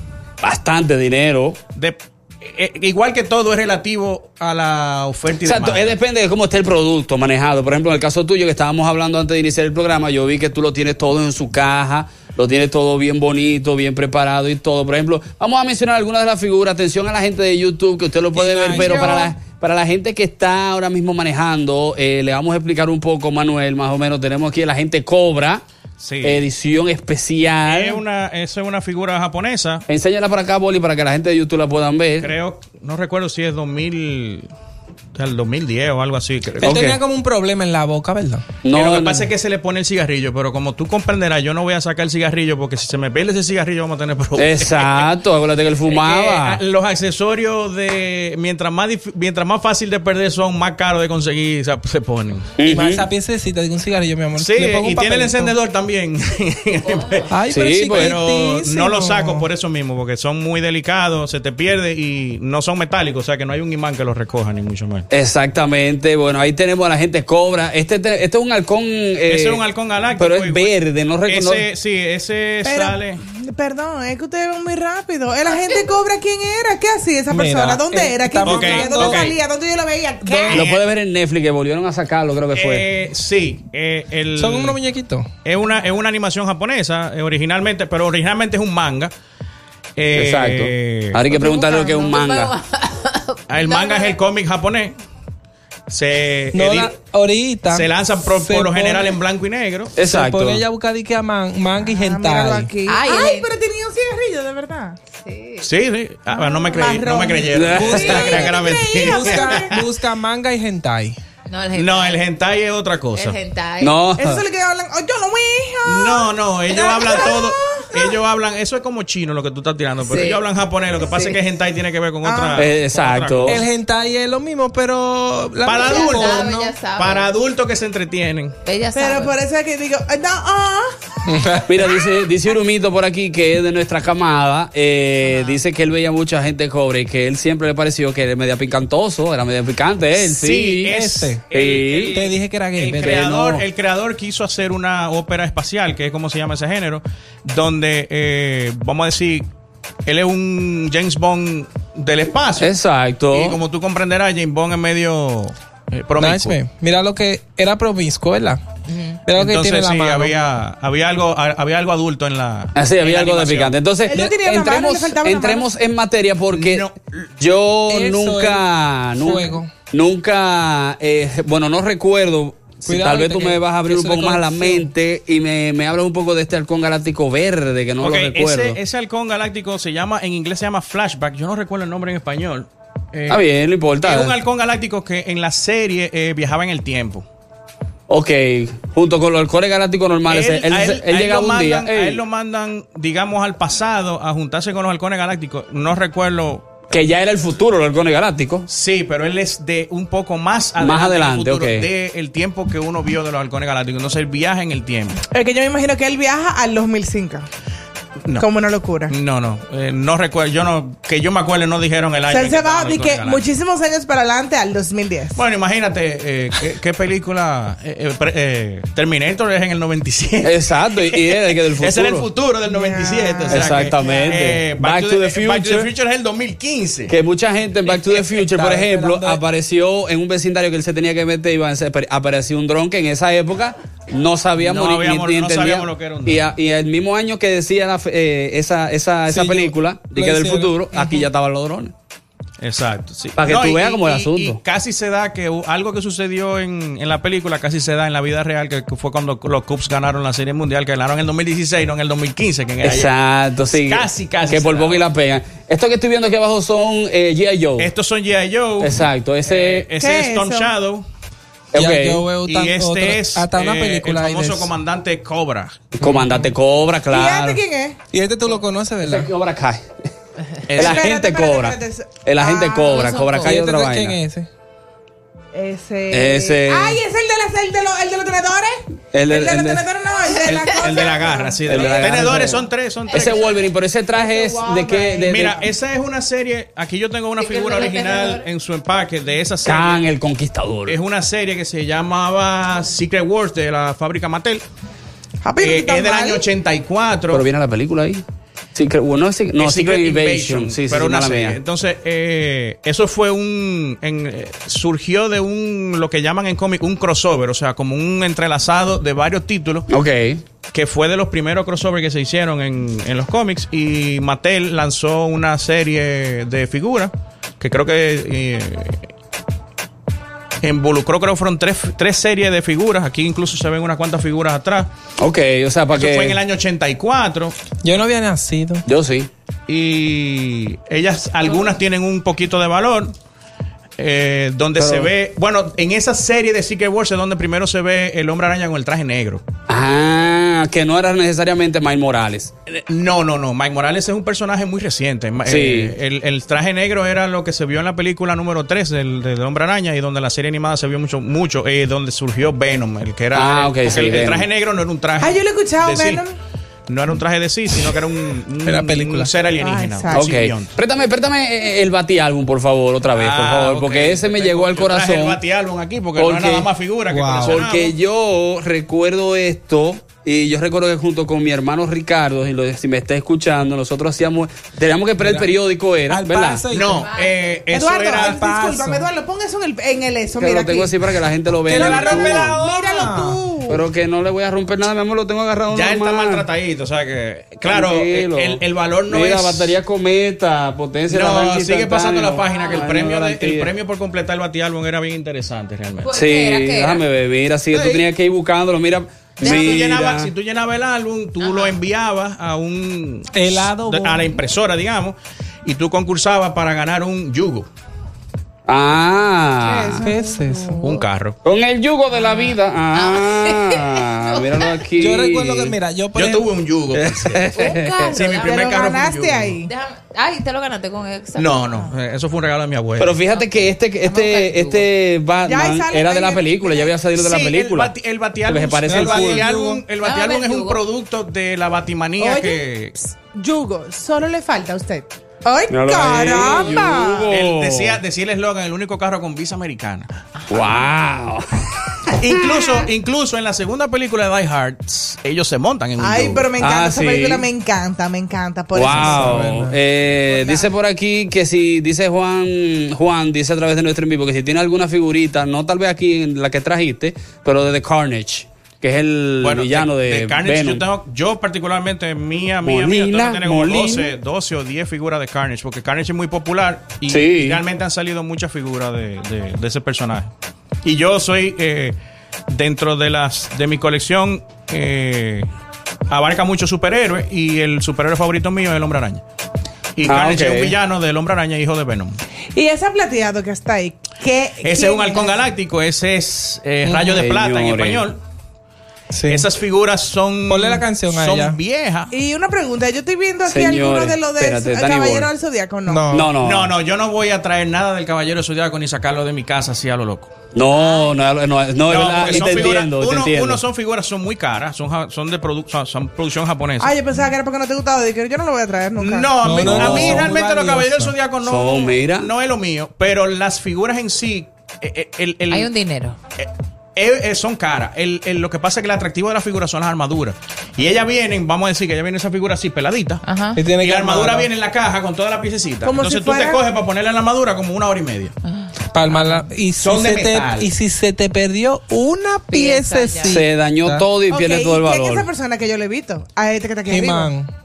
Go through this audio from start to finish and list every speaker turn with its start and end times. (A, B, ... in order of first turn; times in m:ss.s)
0:00.4-0:01.6 A
0:01.7-0:06.0 B
0:05.4-0:25.6 A
0:18.4-0:19.3 C
0:18.7-0:19.1 B
0:26.0-0:26.5 B
0:26.2-0:28.0 A
0:27.7-0:29.8 B
0:29.9-0:32.3 A
0:32.2-0:34.5 B
0:35.1-0:37.0 B
0:36.6-0:36.9 A
0:36.6-0:38.4 C
0:38.6-0:39.3 A
0:38.7-0:45.1 B
0:44.4-0:46.6 A
0:45.8-0:52.6 B
0:52.6-0:53.0 A
0:52.6-0:55.5 C
0:54.4-0:57.3 B
0:57.3-0:59.4 C
0:57.5-0:58.2 A
0:57.9-1:05.0 B
1:05.1-1:09.6 A
1:09.3-1:10.7 B
1:10.2-1:11.6 A
1:11.3-1:13.2 B
1:12.6-1:20.6 D
1:17.3-1:19.2 C
1:18.4-1:19.4 B
1:20.2-1:20.6 C
1:20.5-1:20.8 B
1:20.5-1:22.9 A
1:22.5-1:24.8 B
1:24.4-1:25.3 C
1:25.4-1:29.1 B
1:30.0-1:31.2 B
1:30.1-1:32.5 A
1:31.3-1:34.2 E
1:33.5-1:34.9 B
1:35.9-1:36.9 B
1:36.5-1:39.2 C
1:37.7-1:39.9 B
1:40.0-1:40.6 A
1:40.0-1:42.7 C
1:41.8-1:45.0 D
1:42.8-1:43.5 E
1:45.2-1:45.7 E
1:45.6-1:49.9 B
1:46.3-1:49.7 D
1:47.5-1:48.5 A
1:47.8-1:48.4 C
1:49.0-1:51.2 C
1:51.5-1:52.2 E
1:51.8-1:53.4 B
1:53.1-1:54.0 E
1:53.8-1:54.4 A
1:54.2-1:58.2 D
1:55.8-2:03.7 B
2:00.0-2:00.4 E
2:01.1-2:01.4 E
2:02.2-2:02.7 D
2:02.6-2:03.6 A
2:03.5-2:06.7 C
2:05.6-2:08.6 B
2:05.8-2:07.3 E
2:08.6-2:09.4 E
2:08.9-2:11.2 D
2:11.2-2:11.7 C
2:11.6-2:20.9 A
2:15.2-2:15.6 E
2:20.2-2:29.5 B
2:20.9-2:21.4 C
2:21.5-2:22.2 A
2:22.1-2:23.4 C
2:23.0-2:23.6 A
2:30.0-2:32.7 B
2:32.6-2:33.6 A
2:33.3-2:36.6 B
2:36.2-2:38.6 C
2:38.9-2:39.2 E
2:39.2-2:40.3 C
2:39.3-2:43.8 B
2:42.7-2:46.9 A
2:44.1-2:45.7 D
2:46.5-2:47.3 B
2:47.4-2:58.8 A
2:47.9-2:49.7 C
2:52.8-2:54.9 C
2:58.0-3:03.4 B
3:03.3-3:04.4 A
3:04.0-3:07.2 B
3:08.1-3:12.2 A
3:10.3-3:16.9 B
3:16.9-3:18.7 A
3:18.7-3:25.2 B
3:20.8-3:21.9 A
3:25.3-3:27.5 D
3:28.4-3:29.1 D
3:29.1-3:33.4 B
3:32.3-3:35.4 D
3:35.4-3:47.1 B
3:40.4-3:42.3 A
3:42.6-3:44.3 D
3:43.5-3:45.9 A
3:47.1-4:01.9 A
3:48.3-3:49.4 C
3:54.6-3:56.5 B
3:59.3-4:01.3 C
4:02.6-4:13.1 B
4:03.4-4:04.6 A
4:12.8-4:17.9 A
4:13.7-4:15.0 B
4:17.8-4:21.0 B
4:18.8-4:19.8 A
4:20.0-4:20.7 D
4:21.7-4:22.2 A
4:21.7-4:24.7 C
4:22.4-4:25.9 B
4:26.0-4:27.6 A
4:26.0-4:26.5 C
4:27.1-4:28.0 D
4:28.1-4:29.3 C
4:29.0-4:30.1 A
4:30.7-4:31.0 B
4:30.7-4:34.2 A
4:30.8-4:33.0 D
4:32.9-4:33.5 E
4:33.4-4:34.5 C
4:35.5-4:42.2 D
4:36.1-4:37.0 A
4:39.1-4:39.8 A
4:40.4-4:43.5 B
4:40.6-4:41.0 E
4:41.7-4:45.6 A
4:43.2-4:43.5 E
4:44.1-4:45.5 D
4:45.2-4:50.1 B
4:47.4-4:48.4 E
4:49.6-4:51.0 A
4:50.9-4:54.6 B
4:55.4-4:56.4 D
4:55.6-4:57.4 B
4:57.3-4:58.2 A
4:58.7-5:01.6 A
4:59.6-5:09.9 B
5:09.9-5:10.4 A
5:10.7-5:19.1 B
5:20.6-5:24.9 B
5:25.2-5:26.4 A
5:25.9-5:27.6 B
5:27.8-5:28.8 C
5:28.8-5:29.3 A
5:29.7-5:33.2 B
5:34.0-5:39.4 B
5:34.8-5:35.1 A
5:39.7-5:42.5 A
5:42.7-5:56.2 B
5:45.4-5:45.9 A
5:53.3-5:54.5 A
5:55.2-5:56.3 D
5:56.9-6:00.7 B
5:58.6-5:59.3 C
5:59.6-6:00.2 D
6:00.1-6:05.4 A
6:03.1-6:07.9 B
6:06.2-6:06.7 A
6:07.1-6:07.6 C
6:07.4-6:16.6 A
6:15.2-6:15.5 C
6:16.1-6:17.1 C
6:16.7-6:18.4 B
6:17.0-6:17.4 E
6:17.7-6:20.9 D
6:18.2-6:19.1 C
6:20.4-6:22.6 A
6:21.7-6:23.4 C
6:21.7-6:23.8 D
6:23.7-6:26.4 A
6:25.7-6:29.8 B
6:27.6-6:33.7 A
6:31.1-6:36.2 B
6:32.5-6:32.8 E
6:36.0-6:37.0 E
6:36.1-6:40.3 A
6:37.7-6:38.1 B
6:39.4-6:47.7 B
6:39.4-6:39.9 E
6:41.4-6:41.8 E
6:43.3-6:44.3 C
6:48.7-6:50.0 A
6:49.6-6:50.8 D
6:50.0-6:50.8 C
6:50.8-6:51.4 B
6:51.4-6:55.8 A
6:52.1-6:54.8 E
6:55.0-6:56.5 C
6:56.1-6:57.6 B
6:56.9-6:58.1 A
6:57.5-6:58.9 E
6:58.1-6:59.6 B
6:58.3-6:59.7 D
6:59.6-7:01.9 E
7:01.4-7:03.2 B
7:03.0-7:07.9 A
7:03.3-7:04.9 E
7:05.4-7:06.9 D
7:07.1-7:12.9 B
7:08.4-7:09.4 A
7:08.9-7:09.8 C
7:09.9-7:10.8 E
7:12.2-7:17.3 D
7:15.7-7:18.0 A
7:17.3-7:20.1 B
7:20.5-7:21.4 A
7:20.5-7:20.8 E
7:22.1-7:26.5 B
7:26.0-7:29.5 D
7:26.6-7:27.4 A
7:28.7-7:40.8 A
7:28.8-7:29.7 C
7:30.3-7:30.6 D
7:39.4-7:50.3 B
7:42.6-7:44.1 A
7:47.1-7:47.6 A
7:50.8-7:52.0 B
7:52.5-7:55.5 B
7:56.1-7:59.2 B
8:00.0-8:02.2 B
8:00.0-8:00.7 A
8:02.6-8:05.4 D
8:04.6-8:08.2 B
8:06.8-8:07.1 C
8:07.0-8:08.0 A
8:09.1-8:09.5 C
8:09.3-8:12.1 B
8:10.5-8:11.6 C
8:12.1-8:16.1 D
8:13.5-8:15.3 A
8:15.9-8:16.3 C
8:16.1-8:16.7 A
8:16.4-8:20.3 B
8:20.5-8:23.6 A
8:20.7-8:21.2 E
8:21.8-8:26.9 B
8:26.8-8:29.6 D
8:29.0-8:35.7 B
8:29.4-8:31.1 C
8:29.6-8:30.3 A
8:31.4-8:32.3 A
8:35.5-8:36.2 E
8:36.4-8:43.2 B
8:43.2-8:43.6 E
8:43.6-8:44.5 C
8:43.8-8:48.3 B
8:45.8-8:46.6 D
8:48.4-8:48.7 E
8:48.9-8:54.1 C
8:49.8-8:50.7 B
8:52.5-8:53.4 E
8:53.2-8:55.3 A
8:54.3-8:57.3 D
8:56.9-8:57.5 C